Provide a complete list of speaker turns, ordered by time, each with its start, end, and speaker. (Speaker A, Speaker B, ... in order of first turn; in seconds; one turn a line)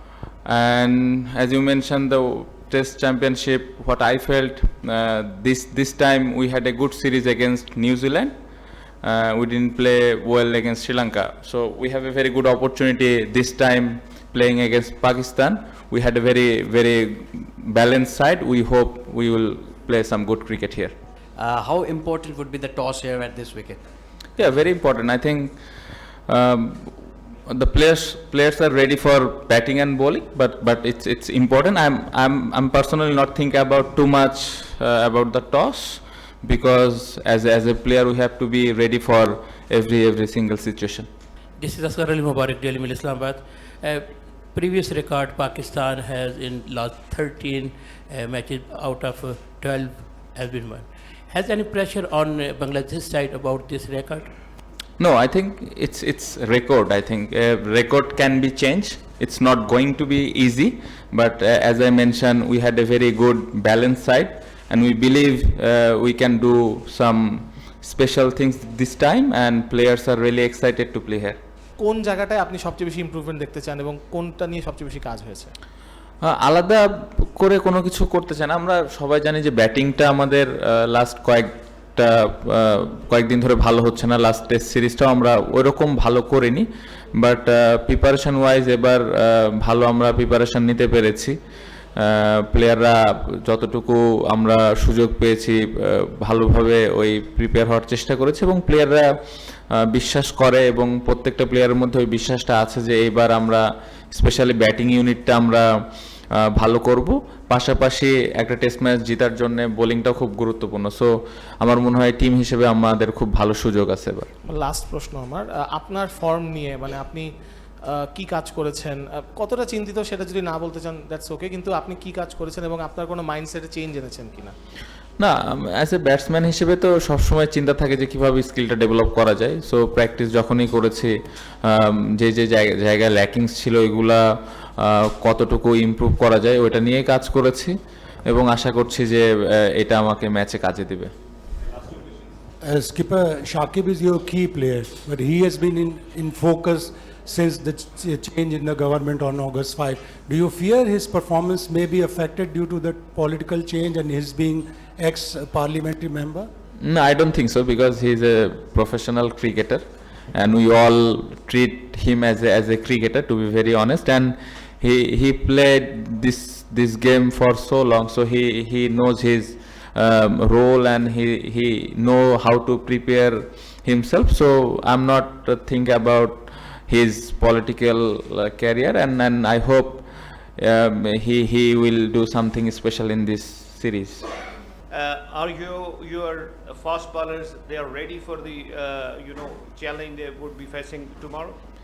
Speaker A: 0.4-8.3
Speaker A: 9.0-20.9
Speaker B: 21.4-23.8
Speaker A: 24.4-25.6
Speaker A: 26.2-41.1
Speaker C: 41.6-54.3
Speaker A: 55.0-71.4
Speaker D: 71.8-75.5
Speaker A: 76.2-91.4
Speaker A: 92.0-99.1
Speaker A: 99.7-105.7
Speaker A: 106.4-114.3
Speaker D: 114.4-117.3
Speaker D: 117.9-124.5
Speaker A: 125.2-137.7
Speaker A: 138.2-141.1
Speaker E: 142.6-156.5
Speaker A: 156.8-184.3
Speaker F: 184.9-191.6